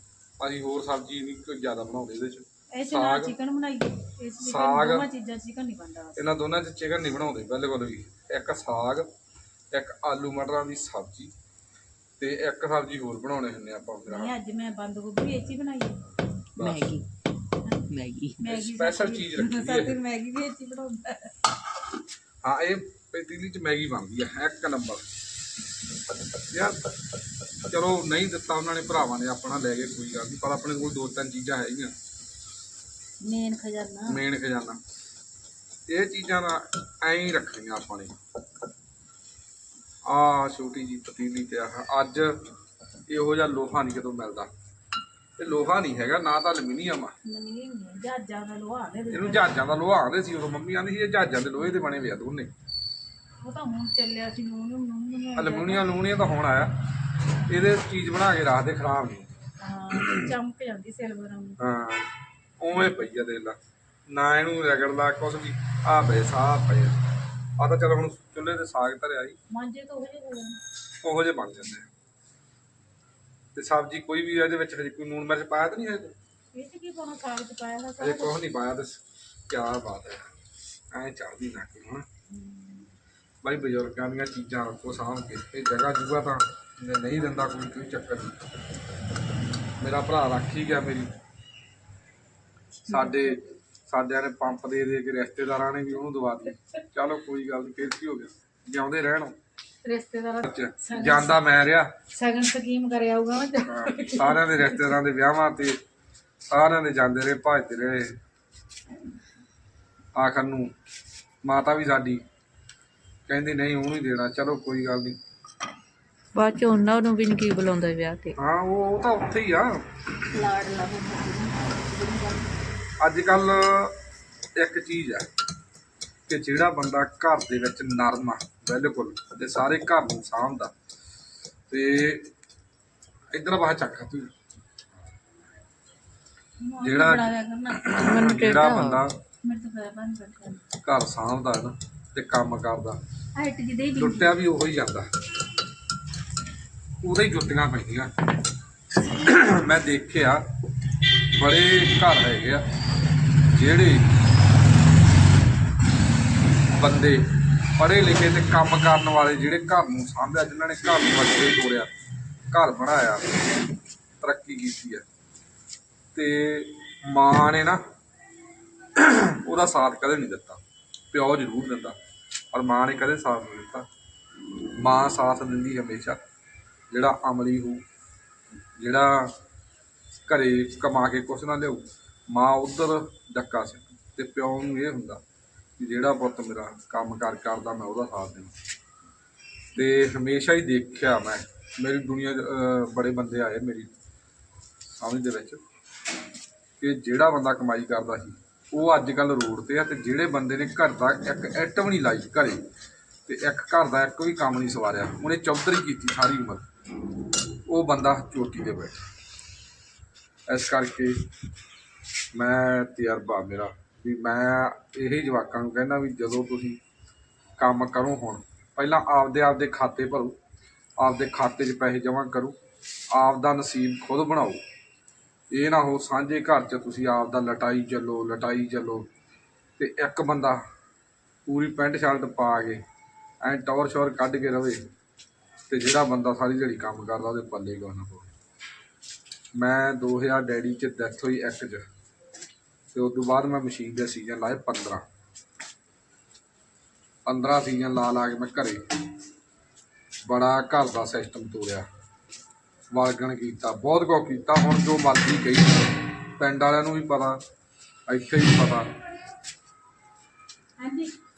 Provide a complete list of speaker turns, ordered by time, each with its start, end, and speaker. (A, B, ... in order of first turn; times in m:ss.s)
0:00.4-0:03.3 A
0:02.7-0:06.3 B
0:04.4-0:05.1 A
0:06.2-0:09.1 A
0:09.7-0:11.3 A
0:12.2-0:14.4 A
0:14.1-0:16.0 B
0:16.6-0:17.0 C
0:16.6-0:16.9 A
0:17.9-0:18.4 C
0:18.4-0:21.5 B
0:18.4-0:20.0 A
0:22.4-0:25.0 A
0:26.5-0:26.9 A
0:27.7-0:31.9 A
0:33.2-0:34.2 B
0:34.1-0:34.8 A
0:35.9-0:38.2 A
0:40.0-0:42.5 A
0:43.1-0:44.5 A
0:45.4-0:47.1 A
0:47.2-0:49.6 B
0:49.1-0:52.5 A
0:53.4-0:55.9 B
0:55.4-0:56.7 A
0:57.5-0:59.3 A
0:59.6-1:01.6 B
0:59.9-1:00.3 A
1:01.6-1:02.1 A
1:02.6-1:03.6 A
1:04.1-1:07.0 A
1:07.6-1:09.4 A
1:09.5-1:10.6 B
1:11.0-1:11.9 A
1:13.6-1:16.1 A
1:16.5-1:18.4 B
1:18.0-1:20.3 A
1:20.9-1:22.1 A
1:22.3-1:22.9 B
1:23.4-1:28.4 A
1:29.8-1:31.1 A
1:32.8-1:33.4 B
1:32.9-1:39.4 A
1:39.8-1:41.4 B
1:40.4-1:41.9 A
1:42.1-1:45.0 B
1:43.6-1:45.8 A
1:46.5-1:48.2 A
1:50.2-1:50.7 A
1:51.4-1:52.2 A
1:53.3-1:55.2 A
1:56.4-1:58.4 C
1:58.4-2:00.1 A
2:00.3-2:02.5 B
2:03.0-2:04.0 A
2:04.6-2:05.3 A
2:06.3-2:10.7 A
2:11.7-2:12.3 A
2:13.3-2:14.3 A
2:16.6-2:18.1 B
2:16.8-2:19.2 A
2:17.9-2:19.0 C
2:19.4-2:20.7 B
2:20.8-2:23.0 A
2:23.4-2:24.4 B
2:24.0-2:25.1 A
2:27.0-2:28.1 A
2:29.1-2:30.4 A
2:31.4-2:32.6 A
2:33.5-2:34.1 A
2:36.7-2:37.3 A
2:37.8-2:41.9 A
2:42.5-2:43.3 A
2:44.2-2:45.0 A
2:46.2-2:47.8 A
2:48.9-2:50.6 A
2:51.1-2:52.0 A
2:52.5-2:53.9 A
2:54.8-2:56.2 A
2:56.9-2:57.8 A
2:58.8-2:59.3 A
3:00.3-3:05.2 A
3:05.8-3:08.5 A
3:09.8-3:13.9 A
3:15.0-3:15.6 A
3:16.8-3:22.6 A
3:23.3-3:26.6 A
3:27.7-3:29.0 A
3:30.5-3:31.2 A
3:32.3-3:36.8 A
3:37.6-3:40.4 A
3:41.0-3:42.6 A
3:43.1-3:44.6 A
3:45.5-3:49.1 A
3:49.8-3:50.6 A
3:51.5-3:52.8 A
3:53.4-3:54.8 A
3:55.7-3:58.3 A
3:59.6-4:01.8 A
4:02.9-4:05.0 A
4:07.3-4:08.8 A
4:10.3-4:11.9 A
4:12.9-4:17.4 A
4:18.1-4:18.9 A
4:20.8-4:21.1 B